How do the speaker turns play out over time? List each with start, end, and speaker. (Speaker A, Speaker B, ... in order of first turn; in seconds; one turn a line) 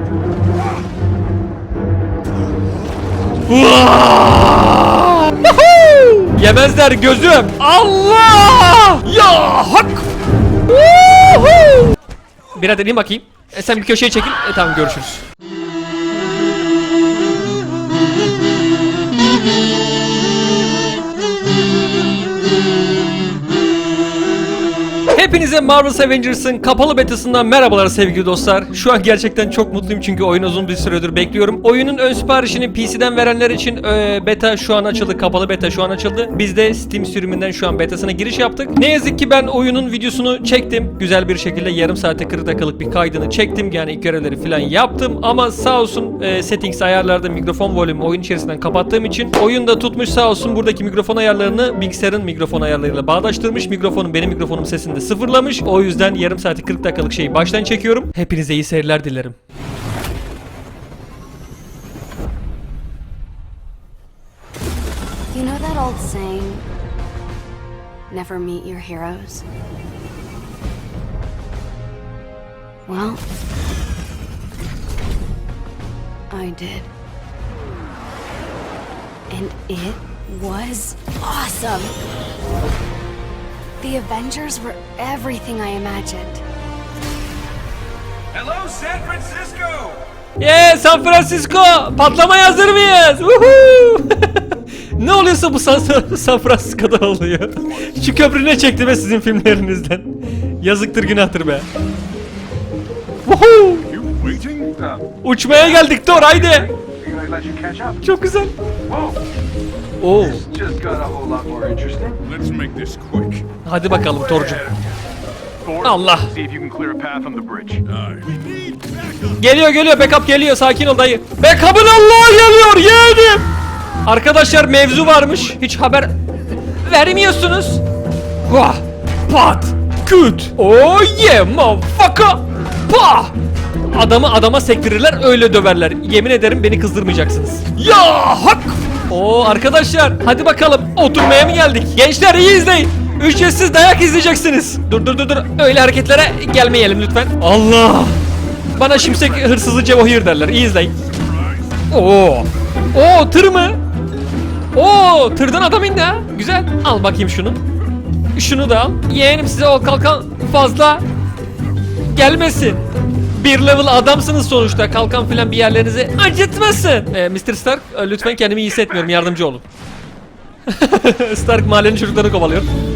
Speaker A: 3.5-10.1
Speaker A: 10.7-11.9
Speaker A: 12.6-15.2
Speaker A: 25.1-59.4
Speaker B: 65.3-66.7
Speaker B: 68.1-69.4
Speaker B: 72.9-73.2
Speaker B: 76.3-76.9
Speaker B: 79.3-82.0
Speaker B: 83.8-86.4
Speaker C: 88.8-89.4
Speaker A: 90.4-101.7
Speaker A: 103.2-104.1
Speaker C: 104.1-104.9
Speaker A: 105.2-106.7
Speaker C: 107.0-108.0
Speaker A: 108.0-108.5
Speaker A: 110.0-110.5
Speaker C: 110.4-113.4
Speaker A: 113.6-114.7
Speaker C: 115.6-118.0
Speaker A: 115.8-116.3
Speaker A: 119.4-123.4
Speaker A: 124.0-126.1
Speaker A: 126.8-127.8
Speaker A: 128.4-133.3
Speaker A: 133.9-148.2
Speaker A: 148.7-150.9
Speaker A: 151.9-153.8
Speaker A: 154.7-157.6
Speaker A: 158.3-161.0
Speaker A: 162.1-169.6
Speaker A: 170.7-172.7